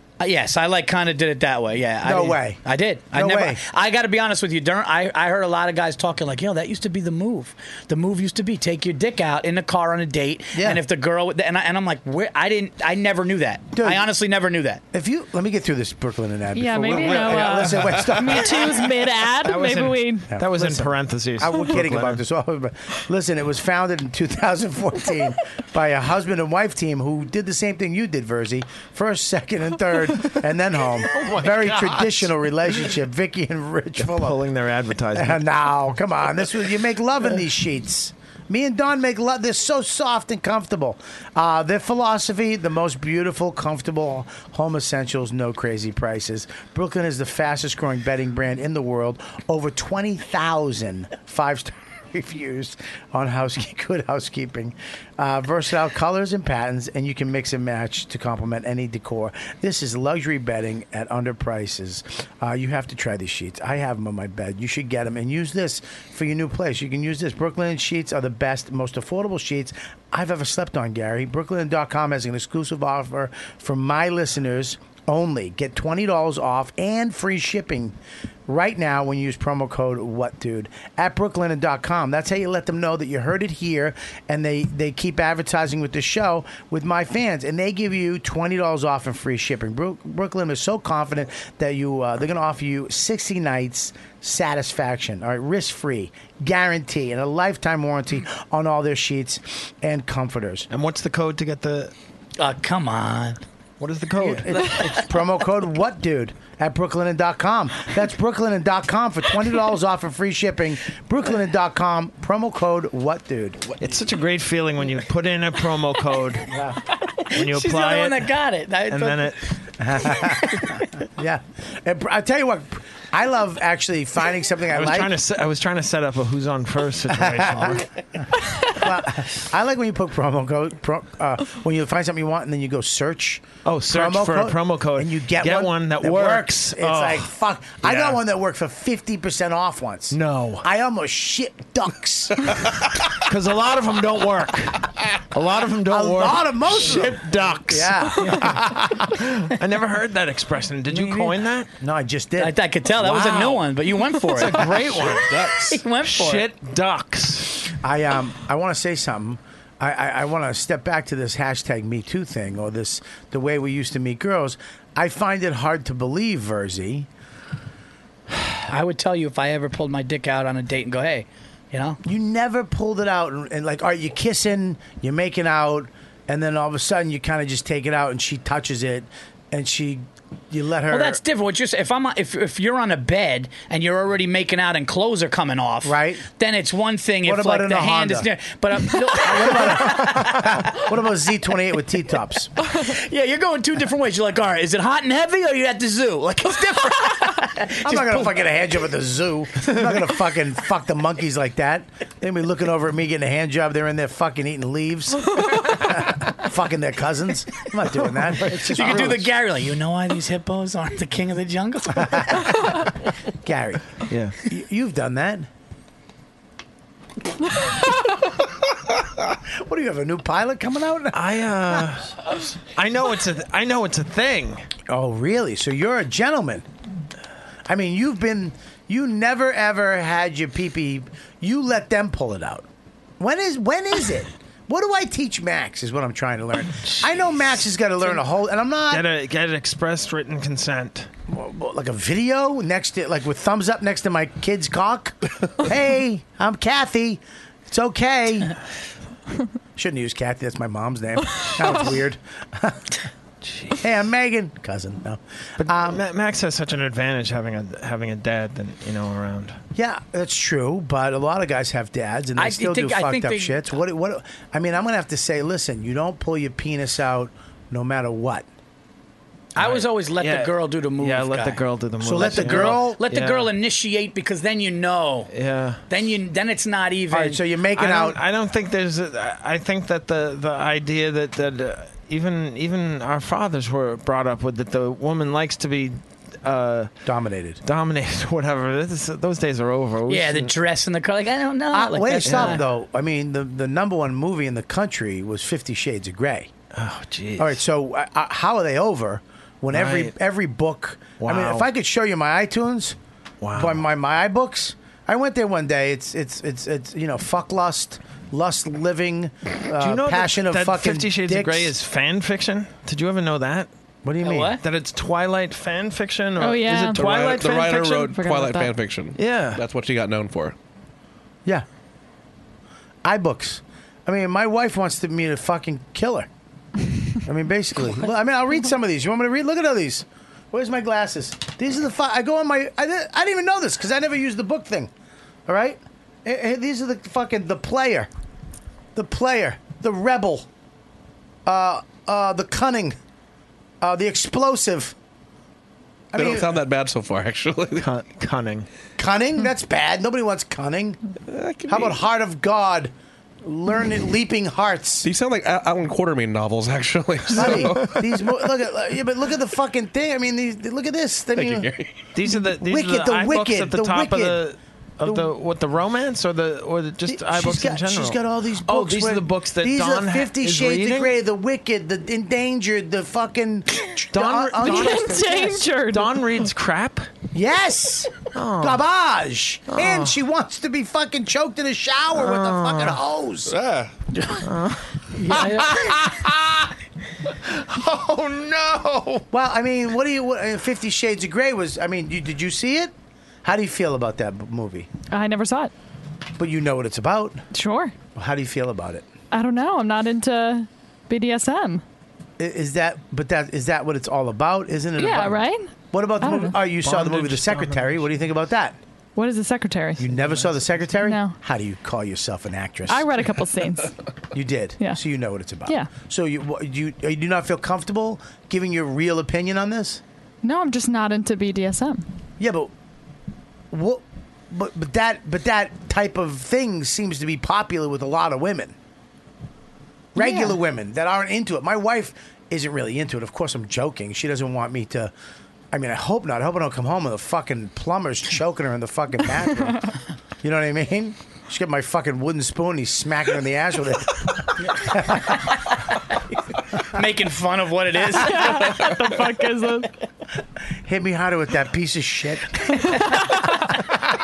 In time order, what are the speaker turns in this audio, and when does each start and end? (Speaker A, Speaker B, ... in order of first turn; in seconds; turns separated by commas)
Speaker A: 0.2-14.8, Speaker B: 2.0-3.6, Speaker B: 10.5-10.8, Speaker B: 13.7-14.1, Speaker B: 14.9-18.9, Speaker C: 16.5-20.3, Speaker D: 19.4-22.2, Speaker B: 20.3-34.4, Speaker D: 31.0-32.3, Speaker D: 34.0-35.4, Speaker B: 35.1-78.0, Speaker B: 78.5-100.7, Speaker D: 100.7-101.9, Speaker A: 102.4-103.4, Speaker D: 103.8-104.6, Speaker B: 104.2-113.7, Speaker A: 104.5-105.0, Speaker D: 113.8-116.5, Speaker A: 116.9-120.8, Speaker D: 117.3-118.2, Speaker D: 118.9-119.4, Speaker B: 119.8-125.1, Speaker D: 124.7-127.9, Speaker B: 127.2-127.8, Speaker B: 128.6-142.7, Speaker D: 133.6-137.3, Speaker D: 137.8-138.2, Speaker D: 140.1-140.7, Speaker D: 143.2-151.7, Speaker B: 145.9-149.2, Speaker A: 150.9-151.3, Speaker B: 151.8-152.5, Speaker A: 152.4-156.5, Speaker D: 153.0-153.7, Speaker D: 154.2-157.7, Speaker B: 157.8-167.1, Speaker A: 168.7-172.0, Speaker B: 172.0-181.2, Speaker A: 180.9-190.5, Speaker B: 185.8-186.2, Speaker B: 187.2-188.3, Speaker B: 189.1-192.5, Speaker A: 192.7-198.3, Speaker B: 197.8-209.3, Speaker A: 208.6-212.6, Speaker B: 212.0-212.8, Speaker B: 213.3-215.5, Speaker D: 214.1-214.3, Speaker B: 219.4-221.9, Speaker D: 221.1-224.7, Speaker B: 224.9-226.7, Speaker B: 227.7-232.7, Speaker B: 233.2-239.1, Speaker D: 236.8-237.1, Speaker D: 238.9-241.1, Speaker B: 241.3-248.5, Speaker B: 249.7-253.0, Speaker D: 253.4-253.9, Speaker B: 253.8-256.0, Speaker D: 255.6-259.6, Speaker B: 259.7-268.5, Speaker A: 262.4-263.6, Speaker A: 269.6-271.6, Speaker D: 269.6-273.5, Speaker B: 272.0-273.0, Speaker A: 272.1-275.3, Speaker D: 275.3-275.8, Speaker A: 275.9-277.4, Speaker B: 277.1-278.2, Speaker D: 277.7-286.9, Speaker B: 287.0-287.6, Speaker D: 287.6-290.5, Speaker A: 290.1-292.6, Speaker B: 291.7-296.5, Speaker D: 292.2-292.6, Speaker D: 296.7-297.6, Speaker B: 297.4-303.0, Speaker D: 299.7-300.1, Speaker D: 301.2-301.6, Speaker D: 303.4-303.8, Speaker B: 303.5-311.7, Speaker D: 309.8-313.7, Speaker B: 314.0-314.6, Speaker A: 314.2-314.6, Speaker D: 314.6-318.0, Speaker C: 316.4-318.7, Speaker E: 317.0-320.5, Speaker D: 319.1-319.6, Speaker B: 323.0-326.3, Speaker B: 327.2-334.9, Speaker B: 335.4-338.1, Speaker B: 338.9-340.5, Speaker B: 341.4-343.0, Speaker B: 343.8-344.9, Speaker B: 346.1-346.6, Speaker E: 346.1-347.9, Speaker D: 347.8-348.7, Speaker B: 348.9-351.0, Speaker E: 351.3-352.0, Speaker B: 351.7-355.1, Speaker E: 355.0-358.1, Speaker B: 357.3-361.7, Speaker D: 357.4-358.0, Speaker E: 361.4-361.9, Speaker D: 362.1-371.1, Speaker B: 362.3-364.4, Speaker B: 365.0-365.3, Speaker B: 367.1-375.6, Speaker D: 374.1-377.1, Speaker C: 374.6-376.2, Speaker B: 377.3-383.5, Speaker D: 378.3-378.8, Speaker D: 379.7-380.1, Speaker D: 382.1-383.0, Speaker E: 383.5-383.9, Speaker A: 384.1-384.4, Speaker D: 384.4-384.8, Speaker A: 385.1-385.9, Speaker B: 385.3-386.4, Speaker D: 388.0-388.8, Speaker B: 389.3-392.9, Speaker B: 393.4-394.9, Speaker C: 395.1-395.7, Speaker B: 396.4-397.4, Speaker C: 397.5-397.9, Speaker B: 398.1-399.1, Speaker C: 399.3-401.8, Speaker B: 402.4-408.8, Speaker C: 405.0-406.6, Speaker D: 406.7-408.1, Speaker C: 409.1-410.0, Speaker B: 410.0-413.1, Speaker D: 410.2-410.8, Speaker C: 411.0-411.4, Speaker C: 412.9-413.9, Speaker B: 414.3-420.0, Speaker C: 415.6-415.9, Speaker C: 420.4-422.1, Speaker B: 422.4-422.7, Speaker B: 423.7-428.7, Speaker B: 430.1-435.1, Speaker C: 430.2-430.6, Speaker B: 435.7-445.4, Speaker A: 446.8-448.9, Speaker C: 448.2-449.9, Speaker B: 450.8-452.7